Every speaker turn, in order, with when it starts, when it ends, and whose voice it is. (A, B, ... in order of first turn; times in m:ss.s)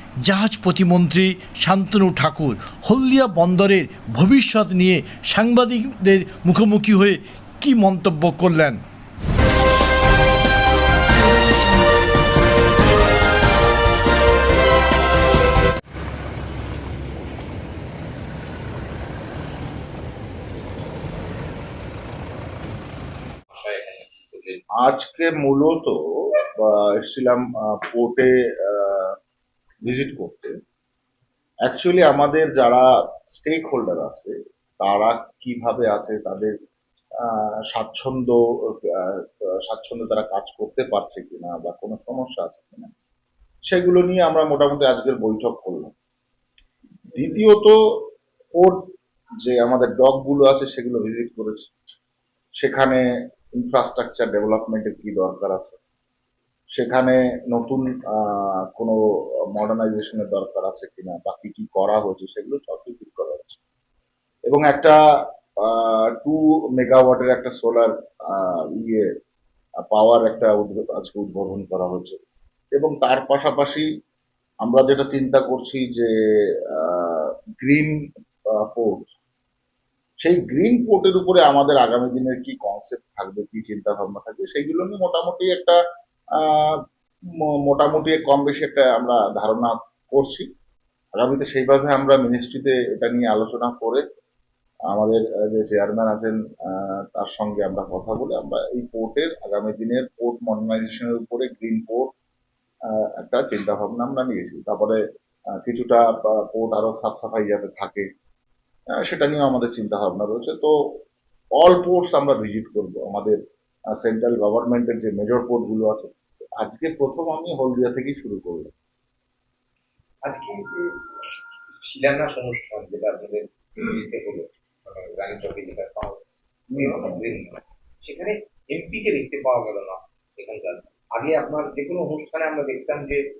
0:00.2-0:08.8 A
0:23.5-0:24.6 B
0:24.8-0:29.2 C
0:29.8-0:30.5 C
0:31.6-0:36.5 C
0:37.2-0:42.9 C
0:43.7-0:45.9 C
0:47.1-0:48.9 C
0:49.4-0:51.7 C
0:52.6-0:53.0 C
0:53.5-0:55.8 C
0:56.7-0:59.0 C
0:59.5-1:03.6 C
1:04.5-1:05.0 C
1:05.6-1:09.1 C
1:09.9-1:12.2 C
1:12.7-1:13.8 C
1:14.6-1:16.1 C
1:16.6-1:17.9 C
1:18.5-1:19.1 C
1:20.2-1:25.8 C
1:26.3-1:26.8 C
1:27.4-1:30.5 C
1:31.1-1:34.0 C
1:34.9-1:42.1 C
1:42.9-1:45.0 C
1:45.5-1:48.1 C
1:48.9-1:51.0 C
1:51.6-1:53.4 C
1:53.9-1:58.7 C
2:00.2-2:01.0 B
2:01.8-2:06.2 B
2:06.7-2:07.3 C
2:06.8-2:07.5 B
2:08.0-2:13.2 B